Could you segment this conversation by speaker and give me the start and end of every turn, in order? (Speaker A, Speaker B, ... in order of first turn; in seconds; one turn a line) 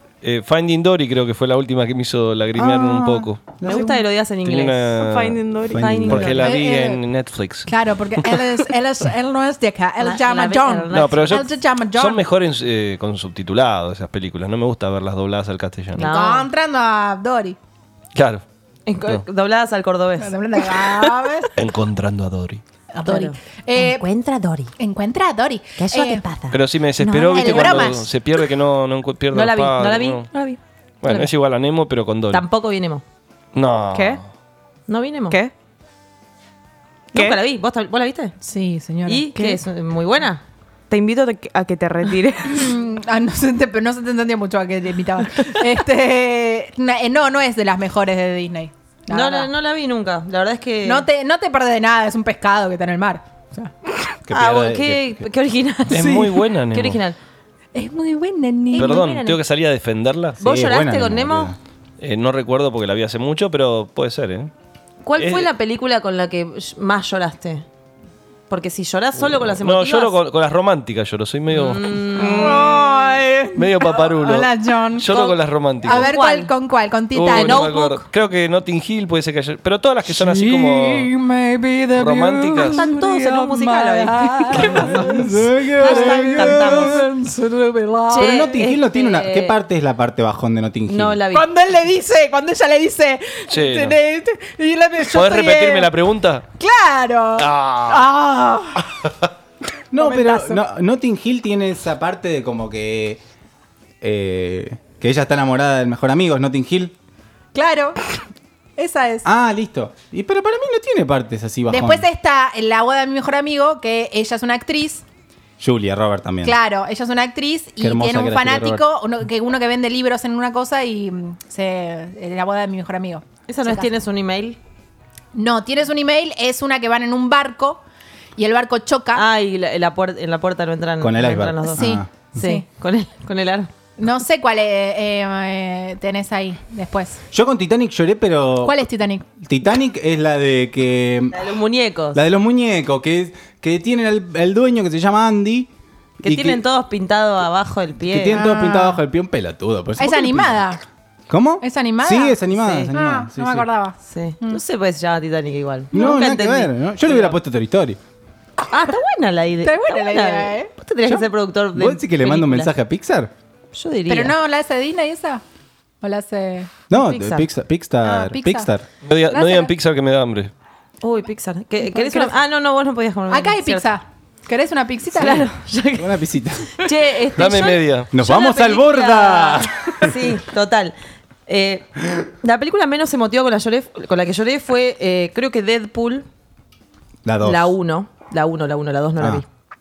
Speaker A: 0.2-3.5
Speaker B: 2.5-4.0
Speaker C: 3.6-5.0
Speaker A: 4.4-5.4
Speaker D: 5.0-6.0
Speaker B: 5.7-6.5
Speaker C: 5.7-6.6
Speaker A: 5.9-8.5
Speaker E: 6.3-7.0
Speaker E: 7.7-12.2
Speaker C: 10.0-11.4
Speaker A: 10.9-16.0
Speaker C: 15.9-16.5
Speaker E: 16.0-17.6
Speaker A: 18.1-18.4
Speaker C: 18.9-21.1
Speaker E: 20.2-21.5
Speaker A: 21.6-22.6
Speaker E: 22.9-24.1
Speaker C: 23.0-24.7
Speaker E: 24.8-26.2
Speaker C: 25.8-27.9
Speaker A: 26.5-30.3
Speaker E: 27.0-28.1
Speaker C: 29.3-31.3
Speaker A: 31.0-32.5
Speaker C: 32.3-33.0
Speaker A: 33.5-34.2
Speaker D: 33.9-34.2
Speaker C: 34.9-35.4
Speaker D: 37.1-37.4
Speaker C: 37.1-38.3
Speaker E: 38.4-39.3
Speaker C: 39.1-40.4
Speaker D: 39.3-39.6
Speaker D: 40.9-42.6
Speaker E: 42.4-49.5
Speaker C: 49.1-51.0
Speaker E: 50.8-53.9
Speaker B: 54.2-55.2
Speaker C: 54.3-57.2
Speaker A: 55.9-57.0
Speaker B: 55.9-56.4
Speaker E: 57.7-59.1
Speaker C: 58.7-59.4
Speaker A: 58.8-60.4
Speaker B: 60.4-61.6
Speaker C: 60.4-61.5
Speaker A: 62.0-64.5
Speaker C: 65.0-67.6
Speaker A: 65.2-65.5
Speaker C: 68.5-70.2
Speaker A: 69.3-72.7
Speaker C: 71.5-72.9
Speaker E: 72.2-75.2
Speaker A: 73.5-76.1
Speaker C: 75.1-76.5
Speaker E: 75.8-77.7
Speaker A: 77.1-81.1
Speaker C: 77.2-78.0
Speaker E: 80.0-88.4
Speaker A: 82.0-82.9
Speaker C: 82.6-87.0
Speaker B: 84.6-87.0
Speaker C: 88.1-89.6
Speaker B: 88.2-91.2
Speaker C: 90.9-91.5
Speaker E: 91.3-95.9
Speaker A: 93.5-94.0
Speaker A: 95.1-96.5
Speaker E: 96.6-98.9
Speaker A: 97.4-98.1
Speaker B: 99.9-103.2
Speaker E: 100.0-100.6
Speaker B: 104.0-106.9
Speaker E: 107.5-108.2
Speaker E: 108.8-109.2
Speaker B: 109.2-112.0
Speaker E: 111.7-115.0
Speaker B: 115.6-116.5
Speaker E: 116.4-123.9
Speaker B: 117.8-118.8
Speaker C: 123.5-124.6
Speaker E: 125.3-127.8
Speaker E: 128.4-129.2
Speaker C: 129.1-133.7
Speaker B: 131.0-132.1
Speaker E: 131.8-132.6
Speaker E: 134.0-137.2
Speaker B: 137.3-138.8
Speaker E: 138.6-139.2
Speaker B: 139.4-141.4
Speaker C: 141.3-142.2
Speaker B: 142.1-145.7
Speaker C: 146.2-148.4
Speaker B: 146.2-146.6
Speaker B: 148.1-150.6
Speaker E: 148.3-149.0
Speaker E: 150.0-150.8
Speaker B: 151.3-153.7
Speaker E: 151.6-154.6
Speaker C: 152.5-152.9
Speaker C: 154.0-157.4
Speaker B: 155.9-158.0
Speaker E: 155.9-156.2
Speaker C: 158.7-162.7
Speaker E: 159.6-160.7
Speaker B: 161.0-163.3
Speaker C: 163.7-164.3
Speaker E: 164.1-165.4
Speaker E: 166.0-166.7
Speaker B: 166.9-168.8
Speaker C: 166.9-167.5
Speaker E: 168.0-168.7
Speaker A: 169.0-170.5
Speaker E: 169.3-169.7
Speaker C: 171.0-173.9
Speaker E: 171.8-172.3
Speaker E: 173.3-175.5
Speaker C: 175.1-176.2
Speaker B: 176.0-176.8
Speaker C: 176.8-180.9
Speaker A: 177.3-178.1
Speaker B: 178.1-180.4
Speaker C: 181.4-186.2
Speaker B: 187.2-187.7
Speaker C: 187.4-189.5